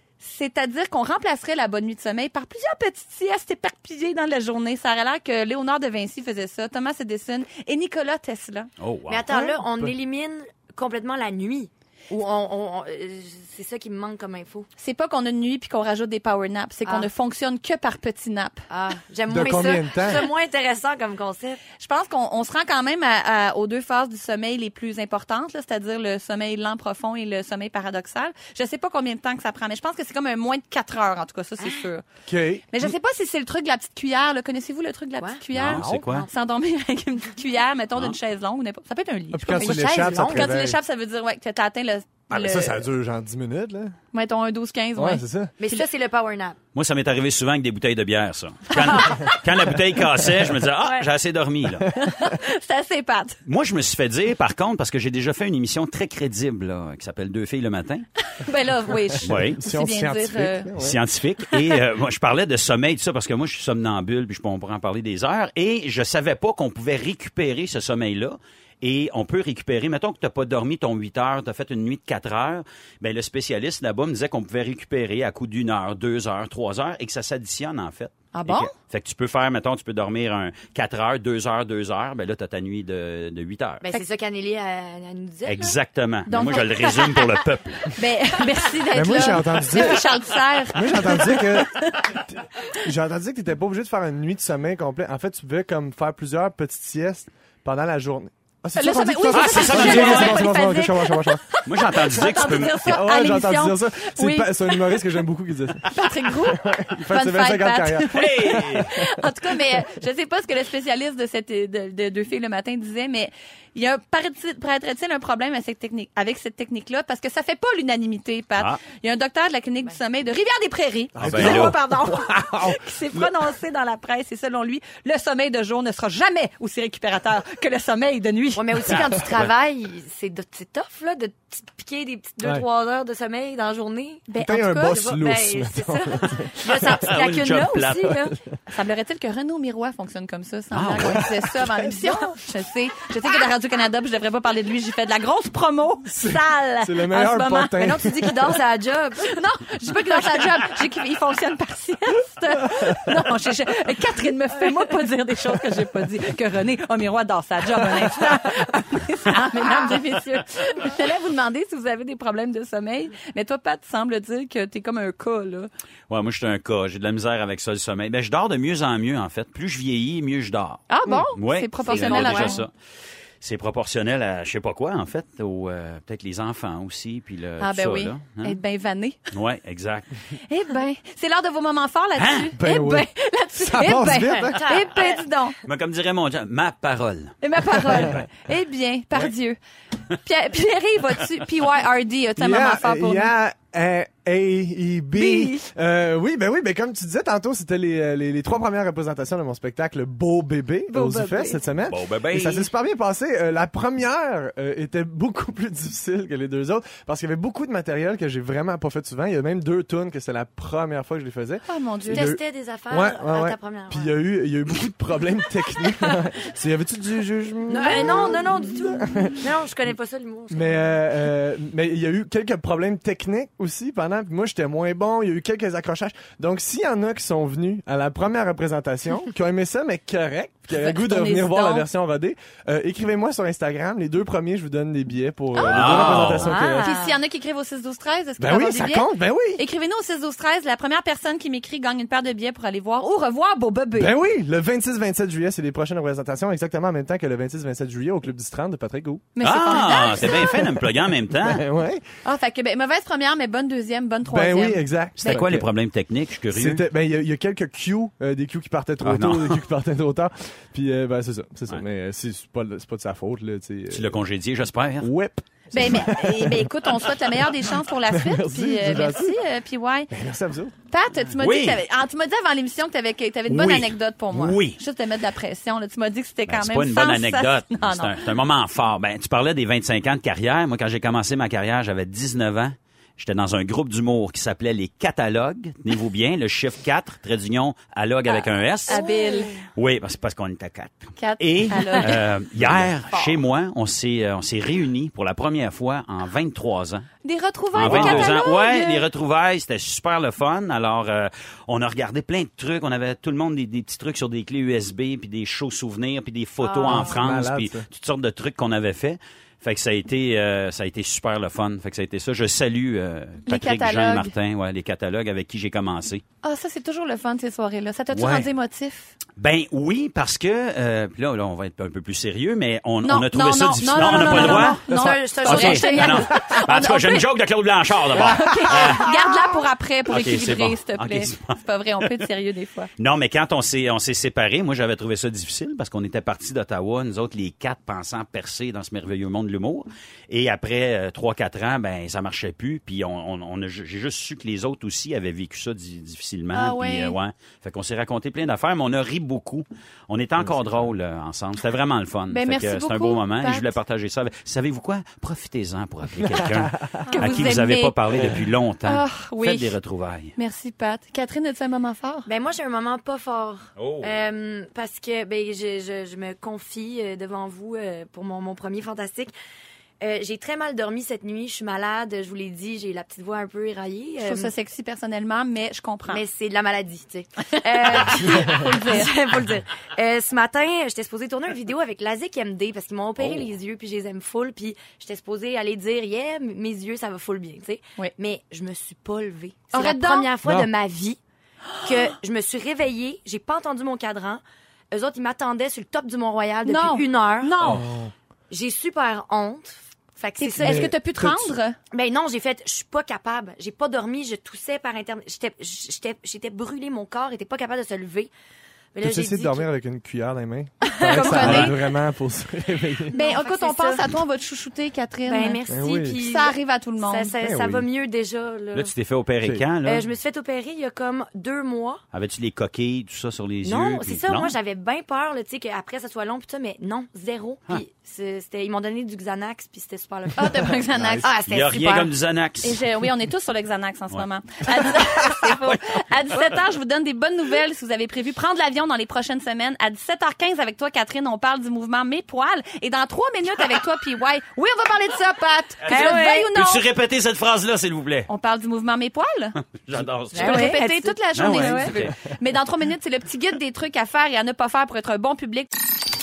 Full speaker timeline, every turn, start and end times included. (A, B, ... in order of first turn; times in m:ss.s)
0:00.2-0:08.7 A
0:08.8-0:09.5 B
0:09.1-0:14.7 C
0:09.3-0:10.0 D
0:14.8-0:18.6 A
0:18.7-0:21.6 C
0:19.3-0:20.3 D
0:21.8-0:32.1 A
0:31.6-0:31.9 C
0:32.3-0:32.8 D
0:32.7-0:42.8 A
0:35.5-0:36.3 B
0:35.8-0:36.0 D
0:39.3-0:40.8 D
0:39.5-0:40.5 C
0:42.3-0:44.0 D
0:44.1-0:45.8 A
0:45.0-0:45.5 D
0:45.6-0:46.6 C
0:46.7-0:51.9 B
0:48.8-0:49.4 A
0:51.9-0:52.2 D
0:52.0-0:53.4 A
0:53.4-0:58.0 B
0:58.2-1:00.7 A
0:59.2-1:01.0 D
0:59.2-0:59.6 B
1:00.8-1:23.8 B
1:18.3-1:18.7 A
1:23.8-1:25.8 C
1:25.4-1:27.9 B
1:26.3-1:26.8 A
1:26.6-1:27.4 C
1:27.9-1:32.2 A
1:28.9-1:30.0 D
1:30.7-1:41.4 D
1:38.8-1:45.1 A
1:39.3-1:40.5 B
1:41.7-1:42.9 B
1:42.2-1:45.9 D
1:45.9-2:08.9 A
1:46.4-1:49.1 D
1:48.1-1:48.9 B
2:01.2-2:03.3 D
2:01.2-2:01.8 B
2:08.5-2:14.3 C
2:08.9-2:09.5 B
2:14.3-2:15.0 A
2:14.4-2:16.7 D
2:14.8-2:18.3 C
2:16.8-2:18.2 B
2:16.8-2:27.9 A
2:18.1-2:18.4 D
2:20.7-2:21.3 B
2:21.1-2:22.3 D
2:26.0-2:28.6 D
2:27.8-2:30.6 C
2:29.3-2:45.7 A
2:46.1-2:52.7 B
2:50.9-2:52.6 A
2:51.8-2:52.6 C
2:53.4-2:58.6 B
2:57.6-2:59.3 A
2:59.3-3:00.2 B
3:00.5-3:05.6 A
3:02.2-3:02.5 B
3:02.5-3:04.8 D
3:04.4-3:05.2 C
3:05.6-3:07.3 B
3:07.4-3:09.6 A
3:07.9-3:08.3 D
3:08.0-3:08.2 B
3:10.1-3:13.3 A
3:12.4-3:39.5 D
3:15.1-3:15.6 A
3:20.9-3:21.6 A
3:21.9-3:22.7 B
3:31.7-3:32.3 A
3:32.1-3:34.2 C
3:35.8-3:36.2 C
3:37.7-3:41.0 C
3:40.5-3:57.0 D
3:50.7-3:51.8 A
3:55.6-4:04.1 A
3:55.6-3:56.6 B
3:56.3-3:57.2 C
3:58.4-3:59.6 D
4:04.0-4:09.3 D
4:09.3-4:10.6 A
4:09.4-4:11.6 B
4:10.4-4:12.0 D
4:12.2-4:15.5 A
4:14.3-4:15.7 D
4:15.2-4:16.8 B
4:16.5-4:24.2 D
4:19.0-4:19.6 B
4:23.9-4:25.1 B
4:25.0-4:27.3 D
4:25.7-4:30.1 A
4:28.0-4:29.4 D
4:30.1-4:30.7 D
4:30.9-4:38.2 A
4:31.3-4:31.8 B
4:33.5-4:34.8 B
4:36.5-4:49.0 B
4:48.9-4:49.6 A
4:48.9-4:49.6 C
4:49.7-4:57.1 B
4:51.2-4:52.2 A
4:52.6-4:52.9 D
4:53.1-4:53.4 A
4:57.2-4:59.0 A
4:57.7-5:16.2 B
4:57.8-4:58.3 D
5:06.6-5:07.2 C
5:06.8-5:07.8 D
5:13.4-5:14.3 A
5:16.4-5:19.1 A
5:18.1-5:18.5 B
5:19.4-5:29.1 B
5:23.0-5:27.2 A
5:24.1-5:26.3 C
5:28.2-5:32.9 A
5:28.2-5:28.9 D
5:30.1-5:32.2 B
5:33.0-6:00.3 B
5:46.5-5:47.2 A
5:50.4-5:50.8 D
5:52.3-5:53.7 A
5:56.2-5:57.0 D
5:57.1-5:57.9 A
5:58.2-5:58.4 D
5:58.8-5:59.7 A
6:00.4-6:02.3 A
6:02.2-6:09.3 C
6:03.8-6:04.2 B
6:10.0-6:14.5 C
6:14.2-6:16.2 A
6:16.1-6:31.2 C
6:17.8-6:19.2 A
6:23.2-6:23.5 B
6:29.7-6:30.3 A
6:30.4-6:30.7 D
6:31.8-6:37.5 C
6:36.7-6:37.8 A
6:37.6-6:38.1 D
6:38.5-6:40.9 C
6:40.4-6:41.8 A
6:40.6-6:41.5 D
6:41.9-6:48.3 C
6:48.9-6:49.7 C
6:49.0-6:53.1 D
6:50.9-6:51.8 A
6:51.1-6:51.7 C
6:53.1-6:54.1 C
6:53.1-6:55.6 A
6:55.2-6:58.9 C
6:55.7-6:56.2 D
6:56.1-6:57.3 A
6:57.4-6:57.8 D
6:58.7-7:00.1 B
6:59.8-7:02.0 C
7:02.1-7:04.6 B
7:03.6-7:12.1 C
7:10.4-7:11.3 A
7:10.8-7:11.2 D
7:11.5-7:12.8 B
7:12.6-7:26.8 A
7:25.8-7:28.3 B
7:25.9-7:26.5 C
7:28.3-7:29.6 A
7:29.7-7:30.8 B
7:30.3-7:31.9 C
7:30.4-7:35.7 A
7:31.3-7:32.1 B